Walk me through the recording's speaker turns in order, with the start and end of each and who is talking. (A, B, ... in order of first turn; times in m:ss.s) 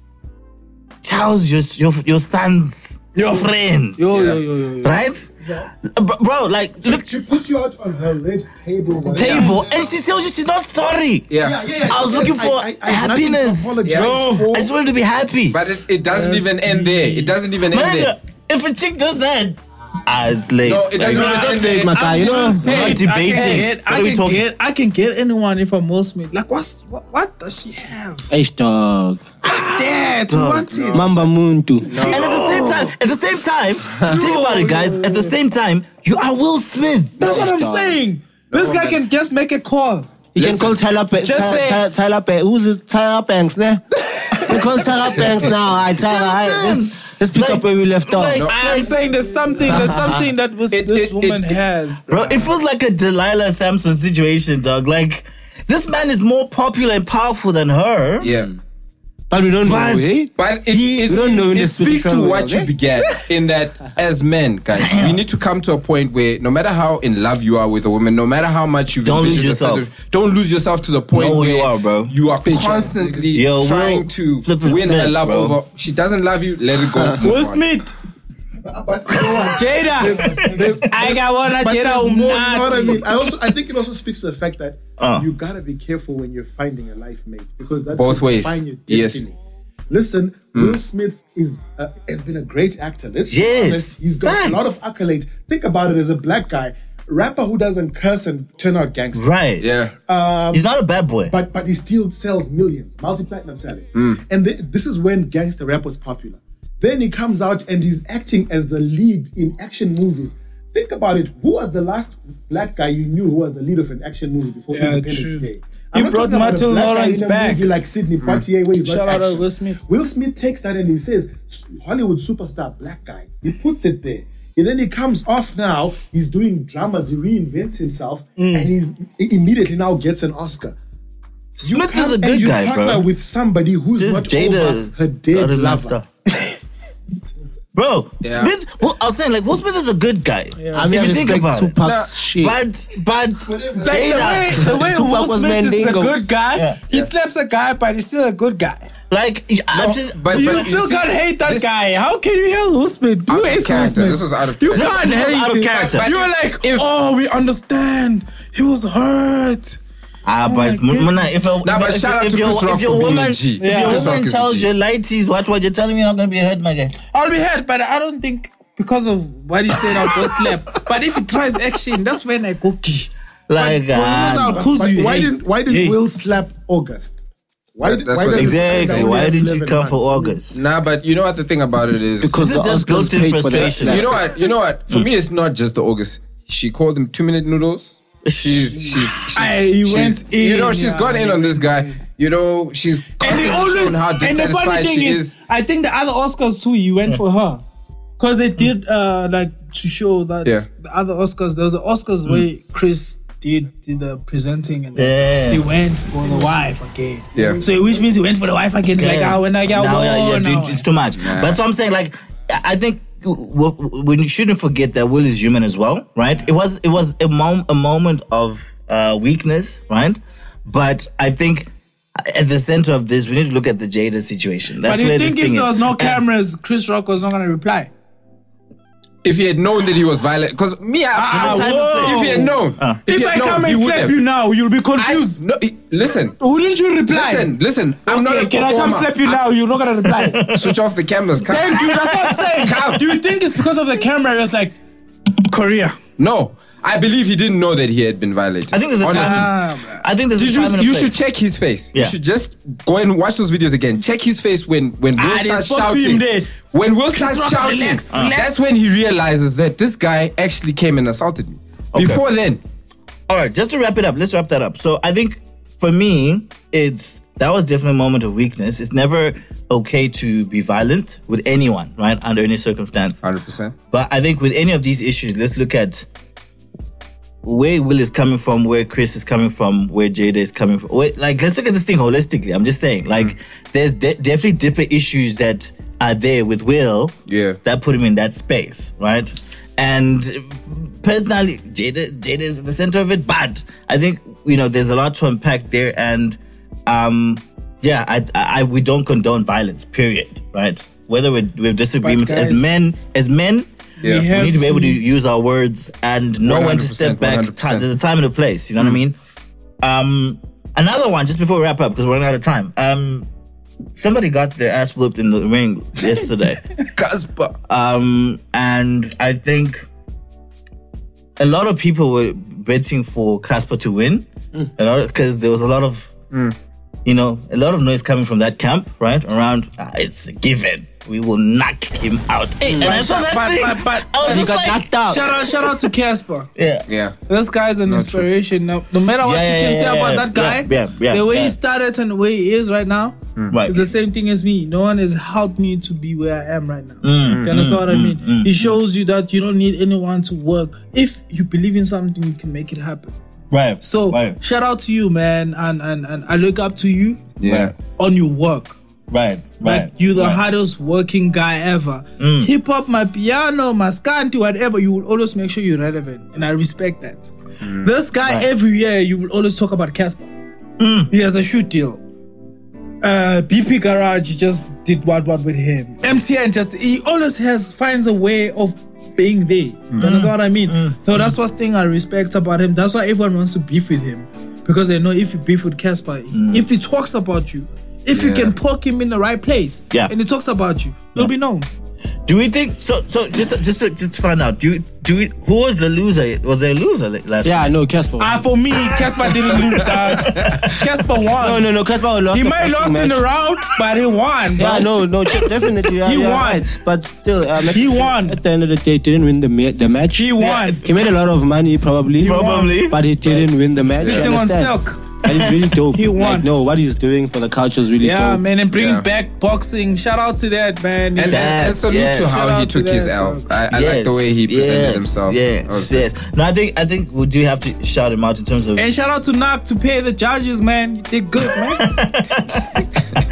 0:01.0-0:04.2 A
0:03.2-0:05.0 B
0:04.1-0:04.4 C
0:04.8-0:05.3 A
0:05.4-0:05.7 D
0:05.8-0:07.1 A
0:06.8-0:09.9 D
0:09.1-0:11.3 A
0:09.1-0:09.6 B
0:11.3-0:11.6 C
0:11.4-0:14.7 D
0:11.9-0:13.8 A
0:13.8-0:14.2 C
0:13.9-0:14.5 B
0:14.5-0:15.7 A
0:15.5-0:18.1 C
0:16.1-0:17.3 B
0:17.7-0:21.8 A
0:20.6-0:23.7 C
0:21.1-0:22.7 E
0:21.2-0:28.3 B
0:22.6-0:24.4 A
0:28.3-0:29.2 E
0:29.4-0:31.2 B
0:30.3-0:30.9 A
0:30.7-0:31.2 C
0:30.9-0:32.1 E
0:31.9-0:32.3 C
0:32.0-0:32.9 B
0:32.0-0:37.4 A
0:34.0-0:35.3 B
0:37.2-0:40.1 B
0:37.2-0:38.0 E
0:38.5-0:39.0 C
0:40.3-0:43.8 E
0:40.4-0:40.8 C
0:41.2-0:41.8 B
0:44.2-0:44.9 B
0:44.4-0:48.4 E
0:45.8-0:49.0 A
0:48.5-0:52.6 B
0:49.7-0:50.2 E
0:49.7-0:50.0 A
0:50.7-0:51.6 C
0:52.1-0:58.3 A
0:58.2-0:58.5 C
0:59.3-1:00.3 E
0:59.6-1:00.2 A
1:00.4-1:17.6 C
1:01.0-1:02.7 E
1:04.7-1:05.2 A
1:09.0-1:09.9 A
1:11.1-1:12.1 A
1:13.3-1:15.6 A
1:17.2-1:17.9 B
1:18.6-1:29.4 D
1:19.4-1:20.2 B
1:20.0-1:20.8 A
1:20.8-1:23.1 B
1:25.0-1:25.3 A
1:27.9-1:29.2 C
1:29.9-1:39.3 D
1:30.5-1:30.8 C
1:33.3-1:34.8 A
1:39.1-1:39.7 A
1:39.6-1:39.9 C
1:40.0-1:40.6 D
1:40.5-1:41.4 A
1:41.3-2:10.7 D
1:43.9-1:44.2 C
1:54.7-1:57.8 B
1:58.8-1:59.8 B
2:08.4-2:08.7 B
2:11.6-2:15.9 D
2:11.6-2:13.1 A
2:13.9-2:16.1 A
2:17.7-2:21.8 A
2:18.2-2:18.5 C
2:20.6-2:21.0 B
2:20.7-2:22.5 E
2:21.8-2:22.1 C
2:22.4-2:24.8 A
2:23.5-2:24.4 D
2:23.8-2:28.9 B
2:24.8-2:26.2 E
2:29.1-2:30.8 A
2:29.7-2:31.7 C
2:30.3-2:39.8 B
2:33.3-2:35.1 C
2:34.6-2:36.0 A
2:35.7-2:36.9 C
2:40.2-2:46.9 A
2:40.4-2:41.3 B
2:41.6-2:44.6 C
2:43.6-2:44.2 B
2:47.1-2:56.0 B
2:49.8-2:50.6 A
2:53.5-2:54.7 A
2:54.5-2:57.2 D
2:57.7-3:00.4 D
2:57.8-2:59.2 C
2:58.3-3:00.6 A
3:00.5-3:02.4 C
3:02.2-3:04.2 E
3:02.3-3:04.3 A
3:03.8-3:15.3 C
3:08.2-3:08.9 A
3:08.7-3:12.0 B
3:13.2-3:17.6 B
3:18.2-3:30.8 B
3:25.0-3:25.6 A
3:27.3-3:27.6 C
3:29.0-3:46.2 A
3:31.2-3:31.6 C
3:44.8-3:47.9 B
3:49.2-3:54.2 C
3:51.2-3:52.5 B
3:51.3-3:53.0 A
3:53.0-3:55.4 B
3:55.0-3:56.4 C
3:56.4-3:57.5 B
3:57.1-3:59.4 C
3:58.0-4:00.4 B
4:00.0-4:00.8 A
4:00.5-4:02.0 C
4:01.5-4:04.8 B
4:01.6-4:02.7 A
4:02.6-4:03.0 C
4:05.5-4:06.0 B
4:06.2-4:09.5 C
4:08.7-4:11.2 A
4:09.0-4:10.0 B
4:10.3-4:22.6 C
4:15.2-4:16.5 B
4:17.1-4:18.5 B
4:18.1-4:18.4 A
4:21.9-4:22.2 A
4:23.3-4:33.2 A
4:33.2-4:33.7 C
4:33.9-4:36.1 A
4:37.4-5:03.7 A
4:47.3-4:47.6 C
5:02.0-5:02.6 B
5:04.0-5:04.3 C
5:04.0-5:05.0 B
5:04.2-5:09.2 A
5:06.4-5:07.8 C
5:09.8-5:13.3 A
5:13.9-5:16.6 A
5:17.0-5:17.5 C
5:17.7-5:19.9 A
5:21.4-5:24.2 A
5:24.8-5:26.1 A
5:27.0-5:35.7 A
5:32.8-5:34.5 B
5:34.2-5:35.2 E
5:35.0-5:36.5 B
5:36.6-5:36.9 A
5:36.9-5:37.1 C
5:37.3-5:53.1 B
5:37.9-5:38.2 C
5:39.2-5:41.6 A
5:43.5-5:43.9 A
5:47.0-5:48.8 A
5:47.2-5:47.6 C
5:53.5-5:54.4 A
5:53.8-5:57.2 B
5:57.4-5:57.7 C
5:57.4-5:57.7 A
5:58.0-5:58.8 B
5:59.1-6:00.4 A
5:59.6-6:10.3 B
6:02.2-6:02.5 A
6:07.6-6:07.9 C
6:08.2-6:08.5 A
6:10.8-6:11.1 A
6:11.1-6:12.0 B
6:13.0-6:31.7 B
6:20.0-6:21.3 A
6:26.3-6:26.7 A
6:28.1-6:28.5 C
6:32.2-6:37.7 A
6:37.4-6:38.3 E
6:38.2-6:41.6 B
6:39.1-6:40.5 A
6:40.2-6:40.7 C
6:41.4-6:43.2 E
6:42.3-6:44.9 B
6:44.6-6:58.4 E
6:46.0-6:46.7 B
6:47.7-6:48.4 B
6:50.1-6:50.8 B
6:50.4-6:50.9 A
6:52.2-6:53.4 A
6:52.2-6:52.7 B
6:54.0-6:55.0 B
6:54.0-6:54.4 C
6:55.2-6:55.7 A
6:55.9-6:56.5 B
6:58.0-7:03.6 B
6:58.7-6:59.0 C
7:01.2-7:06.0 C
7:01.3-7:02.4 A
7:03.7-7:08.9 A
7:08.8-7:12.0 B
7:11.7-7:12.8 A